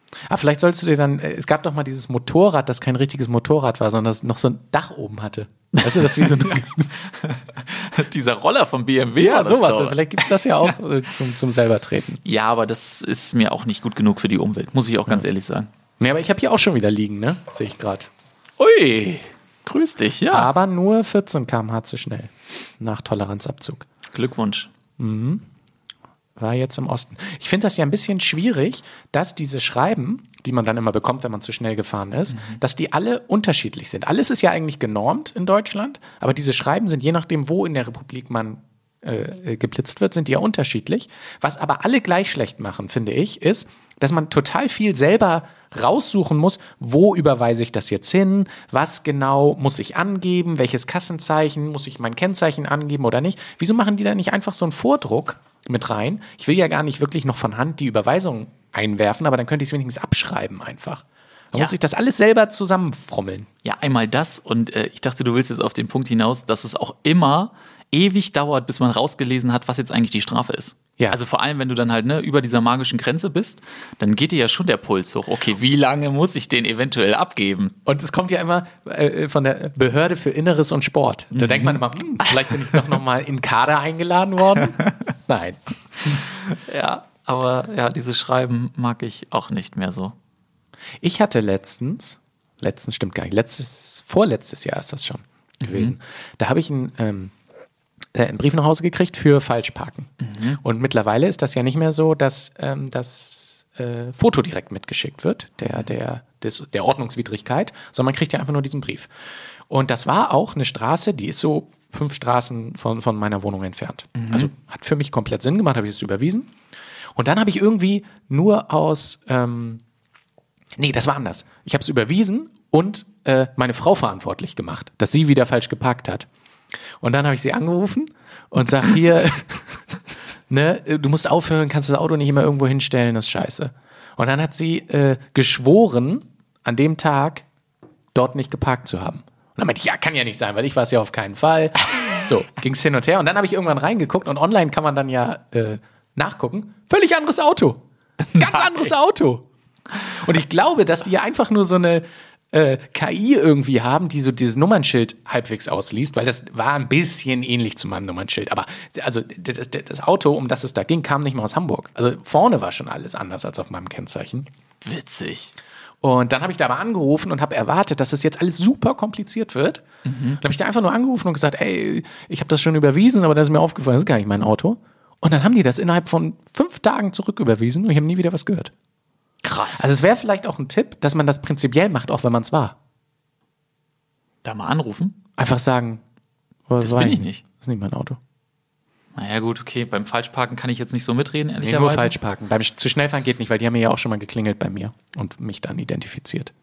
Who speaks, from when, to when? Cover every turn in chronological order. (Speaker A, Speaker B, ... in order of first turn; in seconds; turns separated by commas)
Speaker A: 0.3-6.9, Speaker B: 5.8-10.3, Speaker A: 9.2-12.2, Speaker B: 12.2-15.7, Speaker A: 16.0-18.1, Speaker B: 18.6-20.5, Speaker A: 20.3-23.9, Speaker B: 24.1-24.7, Speaker A: 25.0-25.4, Speaker A: 26.4-63.5, Speaker B: 32.3-32.6, Speaker B: 63.6-77.8, Speaker A: 77.9-86.2, Speaker B: 81.3-82.8, Speaker B: 86.1-90.1, Speaker A: 91.0-97.3, Speaker B: 95.6-95.9, Speaker A: 98.1-109.1, Speaker B: 100.2-100.6, Speaker A: 109.7-116.5, Speaker B: 114.2-114.5, Speaker A: 117.1-119.8, Speaker A: 120.8-126.3, Speaker A: 127.0-129.8, Speaker A: 130.5-137.4, Speaker A: 138.1-147.8, Speaker A: 148.3-164.5, Speaker B: 164.8-165.5, Speaker A: 166.0-169.8, Speaker B: 170.1-170.4, Speaker A: 170.4-178.7, Speaker B: 179.4-179.9, Speaker A: 179.8-182.8, Speaker B: 184.4-185.2, Speaker A: 185.4-186.0, Speaker A: 186.7-188.2, Speaker B: 186.8-187.4, Speaker B: 189.1-192.2, Speaker A: 191.6-196.5